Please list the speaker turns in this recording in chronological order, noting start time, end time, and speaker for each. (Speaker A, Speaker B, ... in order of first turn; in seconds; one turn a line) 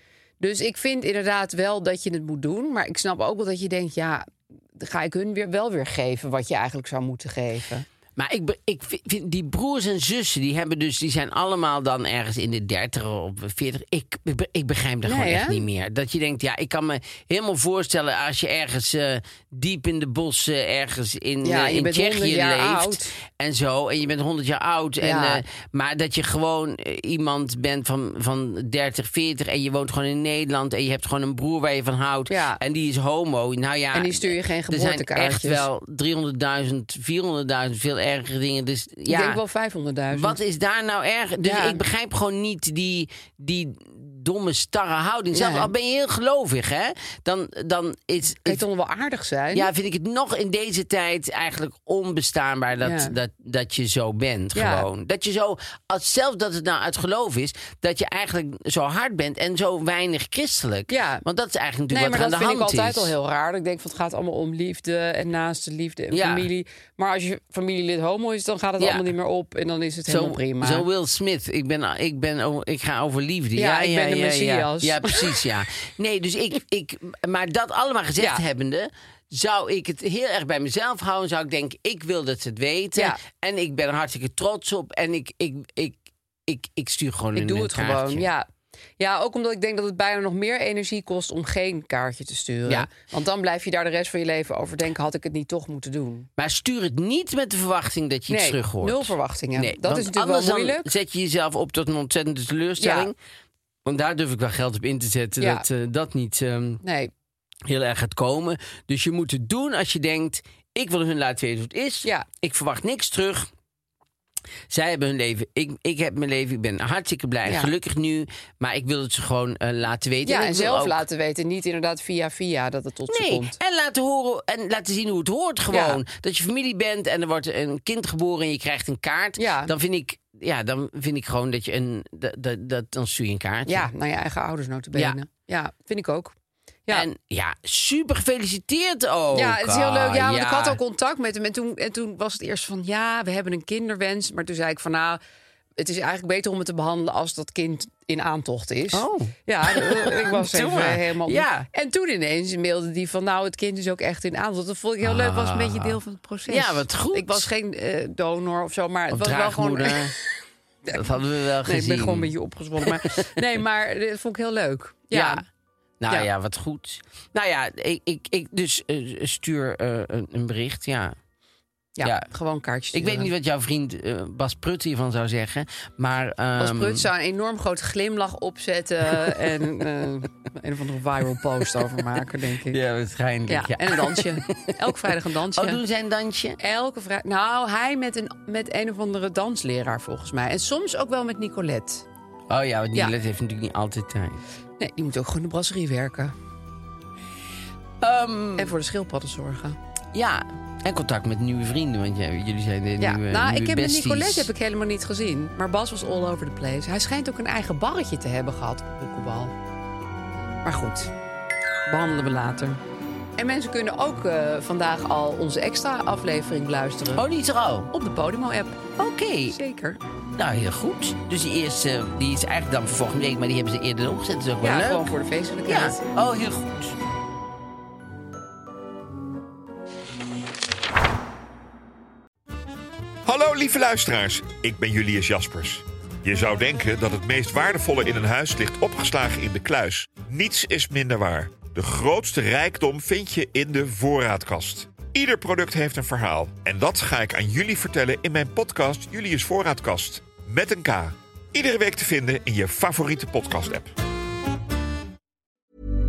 Speaker A: 0.4-7.9
Speaker B: 8.2-39.4
Speaker A: 15.0-15.7
Speaker A: 21.4-23.1
Speaker A: 25.0-25.4
Speaker A: 32.3-32.6
Speaker A: 33.9-35.7
Speaker A: 39.1-40.4
Speaker B: 40.1-48.6
Speaker A: 41.4-41.8
Speaker A: 45.3-45.7
Speaker A: 48.5-49.7
Speaker B: 49.5-63.1
Speaker A: 52.8-53.1
Speaker A: 54.5-54.9
Speaker A: 60.9-61.2
Speaker A: 61.9-70.9
Speaker B: 66.1-66.5
Speaker B: 68.8-69.1
Speaker B: 70.1-88.3
Speaker A: 73.6-75.4
Speaker A: 87.3-88.5
Speaker A: 89.0-96.3
Speaker B: 96.4-103.2
Speaker A: 98.3-100.9
Speaker A: 102.8-103.1
Speaker B: 103.8-106.8
Speaker A: 105.4-105.7
Speaker A: 106.8-107.1
Speaker B: 107.7-113.5
Speaker B: 114.7-121.0
Speaker A: 117.5-117.7
Speaker A: 120.2-123.6
Speaker B: 123.1-133.9
Speaker A: 125.7-126.0
Speaker A: 129.4-129.7
Speaker A: 133.7-136.3
Speaker B: 134.9-135.2
Speaker B: 136.9-140.8
Speaker A: 139.3-145.2
Speaker A: 145.8-160.2
Speaker B: 148.9-151.7
Speaker B: 155.0-157.5
Speaker B: 159.1-160.2
Speaker B: 160.9-162.3
Speaker A: 161.7-165.4
Speaker B: 162.8-163.3
Speaker B: 165.1-165.4
Speaker B: 166.0-171.2
Speaker A: 172.0-173.3
Speaker B: 172.0-172.3
Speaker B: 172.9-177.1
Speaker A: 176.6-182.8
Speaker B: 182.7-186.6
Speaker A: 183.5-185.8
Speaker A: 186.6-192.1
Speaker B: 192.5-194.4
Speaker A: 194.8-196.3
Speaker B: 198.0-198.7
Speaker A: 198.6-199.8
Speaker B: 200.1-204.5
Speaker A: 203.0-209.5
Speaker A: 210.6-211.1
Speaker A: 211.9-212.8
Speaker A: 213.4-217.2
Speaker B: 217.2-217.9
Speaker A: 217.9-218.9
Speaker B: 219.0-219.6
Speaker A: 219.5-220.0
Speaker B: 220.4-225.1
Speaker A: 224.6-226.1
Speaker B: 225.7-226.9
Speaker C: 233.3-253.9